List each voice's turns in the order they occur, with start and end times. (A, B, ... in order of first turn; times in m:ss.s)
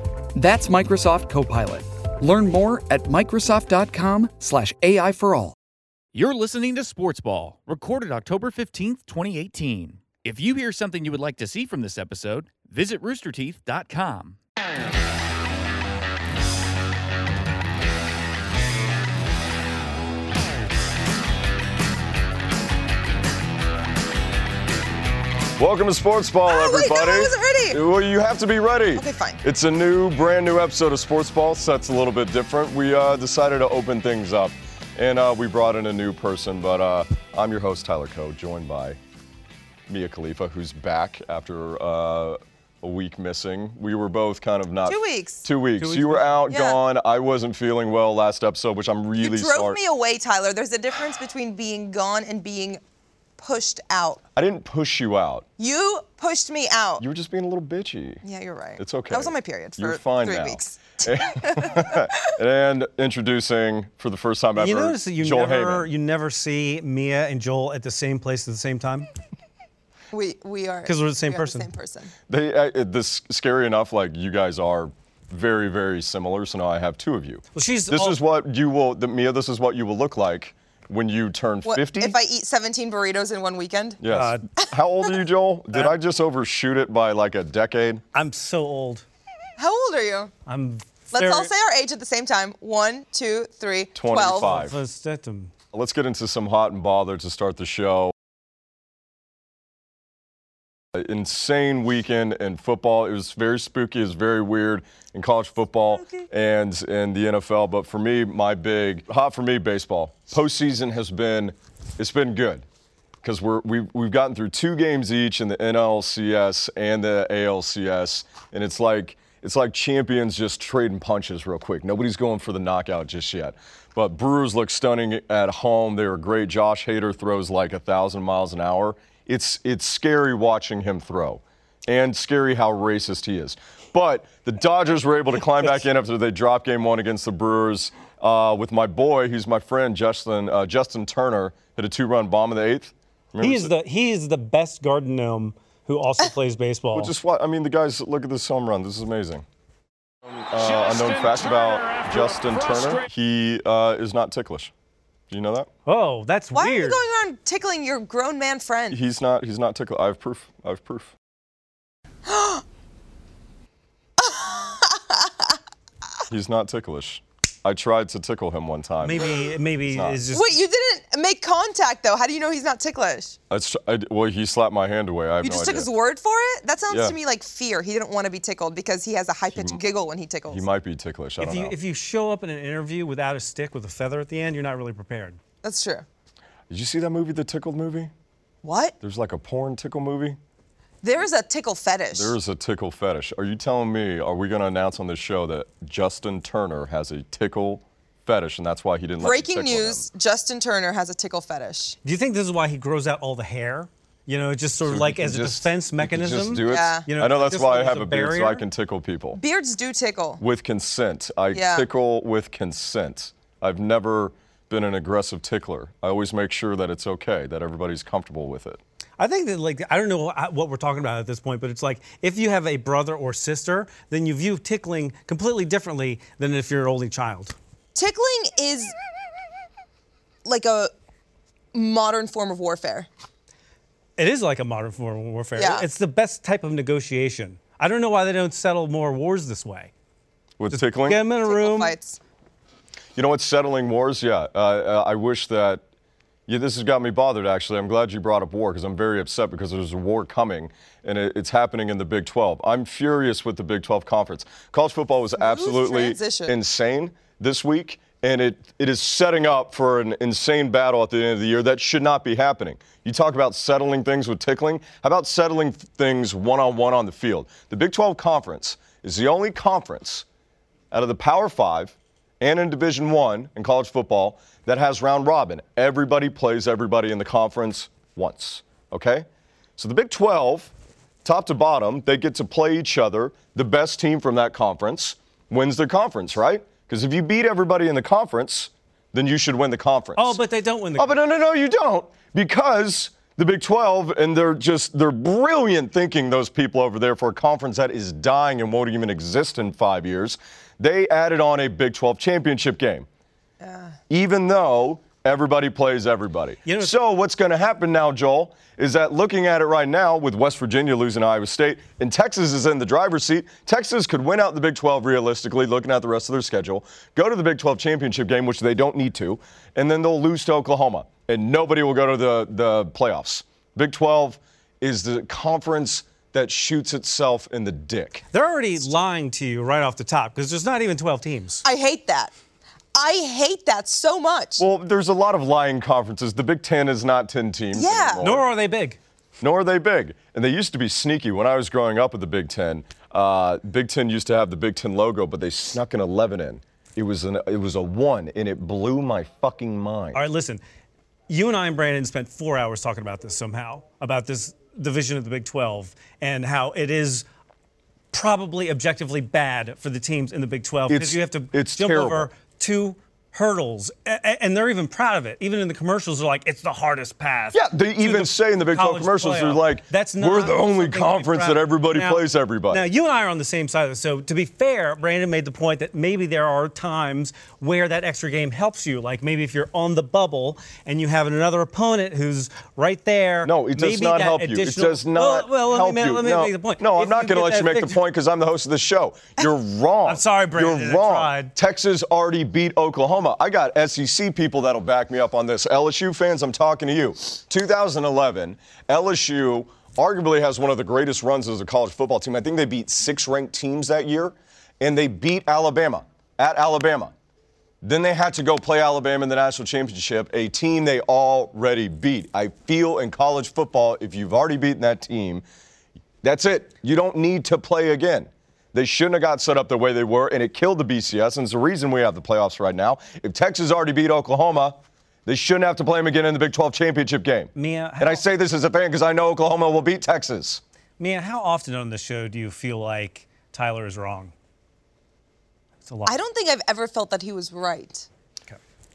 0:00.4-0:05.6 A
0:06.1-0:14.4 B
0:25.6-0:39.0 C
0:26.5-0:27.8 D
0:29.0-0:29.4 D
0:39.9-0:49.8 C
0:44.9-0:45.5 D
0:45.8-0:46.4 E
0:46.5-0:46.8 D
0:49.2-0:52.8 D
0:53.4-0:54.2 D
0:54.4-0:55.4 C
0:55.6-0:57.0 D
0:57.0-0:58.2 C
0:58.2-1:02.3 D
0:58.8-1:05.9 C
1:04.6-1:09.1 E
1:10.1-1:12.1 D
1:10.9-1:11.7 E
1:12.3-1:22.2 C
1:17.5-1:18.2 E
1:21.6-1:24.0 D
1:24.0-1:28.0 C
1:24.1-1:24.5 E
1:28.1-1:29.0 E
1:29.6-1:30.3 D
1:30.5-1:31.5 E
1:31.1-1:34.6 D
1:34.0-1:34.8 C
1:34.2-1:35.5 E
1:35.7-1:38.1 C
1:40.9-1:52.6 C
1:53.2-2:23.7 C
2:23.4-2:27.1 E
2:26.9-2:29.4 C
2:30.4-2:34.7 C
2:35.3-2:35.7 C
2:35.9-2:37.0 E
2:36.6-2:39.0 D
2:38.9-2:41.1 C
2:42.3-2:42.6 D
2:44.2-2:45.6 D
2:46.3-2:50.2 C
2:49.0-2:50.5 E
2:50.3-2:53.4 D
2:53.5-2:55.9 C
2:55.4-3:00.6 D
2:59.5-2:59.8 C
3:00.5-3:01.8 C
3:01.4-3:05.4 E
3:05.6-3:06.1 D
3:06.7-3:08.1 C
3:08.6-3:08.9 D
3:09.0-3:10.4 C
3:11.0-3:12.4 D
3:12.1-3:20.0 C
3:19.2-3:22.0 D
3:22.0-3:28.6 E
3:24.8-3:29.4 C
3:26.6-3:27.1 D
3:29.3-3:30.4 D
3:30.4-3:38.8 C
3:31.5-3:31.9 D
3:39.2-3:47.6 E
3:48.0-3:48.9 D
3:50.4-3:50.9 D
3:51.7-3:53.1 D
3:54.2-3:59.9 E
3:55.6-3:55.8 D
4:00.6-4:01.2 C
4:00.7-4:01.9 E
4:01.5-4:02.2 D
4:03.2-4:05.8 C
4:06.5-4:30.2 C
4:15.4-4:16.6 D
4:30.9-4:39.3 C
4:39.8-4:40.7 C
4:41.2-4:50.4 C
4:50.2-4:51.2 E
4:51.0-5:03.1 C
5:03.6-5:04.0 D
5:04.1-5:28.2 C
5:06.6-5:07.0 E
5:28.3-5:31.6 E
5:31.6-5:32.3 D
5:33.0-5:34.6 D
5:34.6-5:38.4 C
5:37.7-5:38.3 D
5:38.2-5:39.0 E
5:39.4-5:50.2 C
5:50.1-5:50.6 E
5:51.3-5:57.2 E
5:58.1-6:28.0 E
6:00.9-6:02.3 C
6:07.5-6:12.9 C
6:23.4-6:47.1 C
6:30.1-6:31.5 E
6:47.8-6:55.4 C
6:56.2-7:10.6 C
7:07.6-7:08.2 E
7:11.0-7:14.3 E
7:15.8-7:16.1 E
7:16.1-7:18.1 D